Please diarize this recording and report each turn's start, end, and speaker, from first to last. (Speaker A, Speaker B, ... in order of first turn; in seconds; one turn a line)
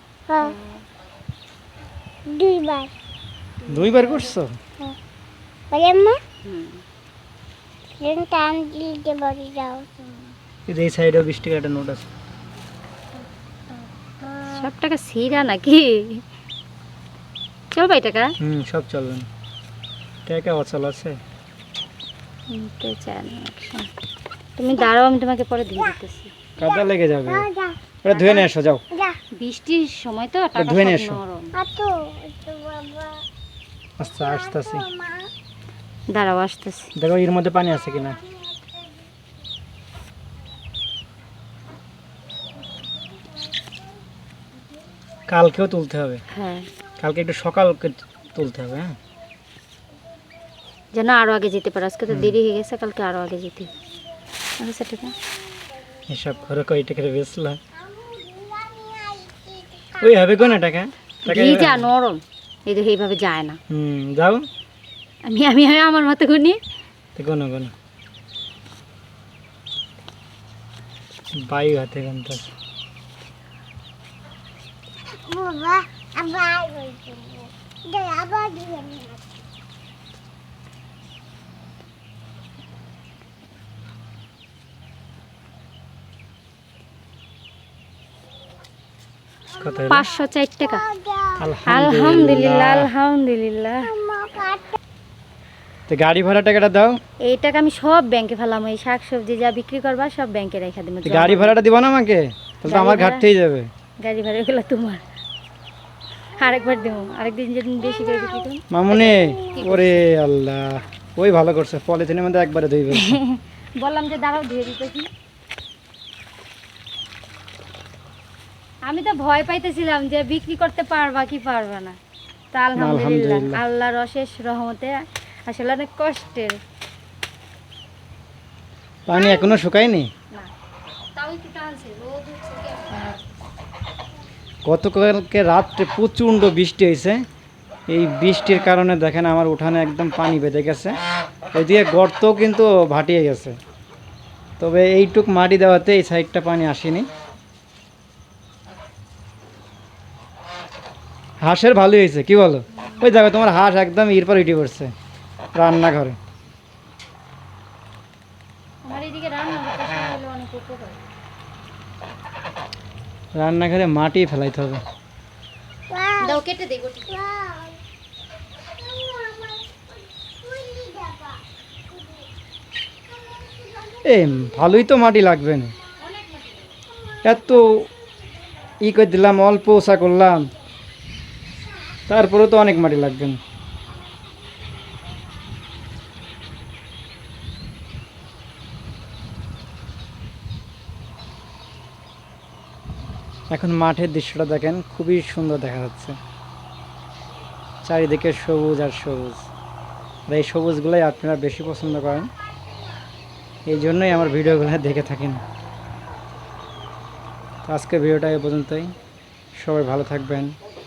Speaker A: 0.3-0.5
Speaker B: 0.4-0.8
Speaker A: 2.3-2.9
Speaker C: 3.7-4.6
Speaker B: 3.7-4.3
Speaker A: 5.7-6.2
Speaker B: 6.5-6.8
Speaker A: 8.0-10.0
Speaker C: 10.7-12.1
Speaker B: 14.4-16.2
Speaker B: 17.7-18.3
Speaker C: 18.4-19.3
Speaker C: 20.3-21.2
Speaker B: 22.5-23.9
Speaker B: 24.6-26.3
Speaker C: 26.6-27.5
Speaker A: 26.6-27.8
Speaker C: 28.0-28.8
Speaker A: 28.9-29.2
Speaker B: 29.4-31.5
Speaker C: 30.6-31.2
Speaker A: 31.6-33.2
Speaker C: 34.0-34.9
Speaker A: 34.2-35.3
Speaker B: 36.1-36.9
Speaker C: 37.0-38.2
Speaker C: 45.3-46.2
Speaker B: 46.3-46.7
Speaker C: 47.0-49.0
Speaker B: 50.9-53.7
Speaker C: 52.1-52.4
Speaker B: 54.6-55.1
Speaker C: 56.1-57.6
Speaker A: 57.8-60.1
Speaker C: 60.0-61.9
Speaker B: 61.2-63.6
Speaker C: 63.7-64.5
Speaker B: 65.3-66.6
Speaker C: 67.2-67.7
Speaker C: 71.3-72.5
Speaker A: 75.1-79.2
Speaker C: 89.6-90.0
Speaker B: 89.9-90.8
Speaker A: 90.7-91.5
Speaker C: 91.4-92.9
Speaker B: 91.7-93.9
Speaker A: 93.9-94.8
Speaker C: 95.9-97.0
Speaker B: 97.2-101.6
Speaker C: 101.0-103.7
Speaker B: 102.7-103.2
Speaker B: 104.0-105.0
Speaker B: 106.4-108.6
Speaker C: 108.7-113.2
Speaker A: 108.9-109.7
Speaker B: 109.6-110.0
Speaker B: 112.9-115.1
Speaker B: 118.8-122.0
Speaker B: 122.5-126.6
Speaker C: 122.8-123.6
Speaker C: 129.1-130.1
Speaker A: 129.2-129.5
Speaker B: 131.2-133.2
Speaker C: 134.6-137.2
Speaker C: 137.9-141.0
Speaker C: 141.5-143.6
Speaker C: 144.6-147.1
Speaker C: 151.4-154.9
Speaker C: 155.6-156.2
Speaker B: 158.8-161.0
Speaker C: 163.3-164.8
Speaker A: 165.9-166.4
Speaker B: 166.2-167.2
Speaker A: 167.1-167.8
Speaker A: 168.8-171.4
Speaker A: 173.2-174.0
Speaker C: 174.0-175.7
Speaker B: 176.1-176.5
Speaker C: 177.2-177.8
Speaker C: 178.8-180.5
Speaker C: 182.1-183.4
Speaker C: 193.5-196.2
Speaker C: 197.8-199.5
Speaker C: 200.3-202.3
Speaker C: 203.7-205.4
Speaker C: 207.7-208.9
Speaker C: 209.6-210.6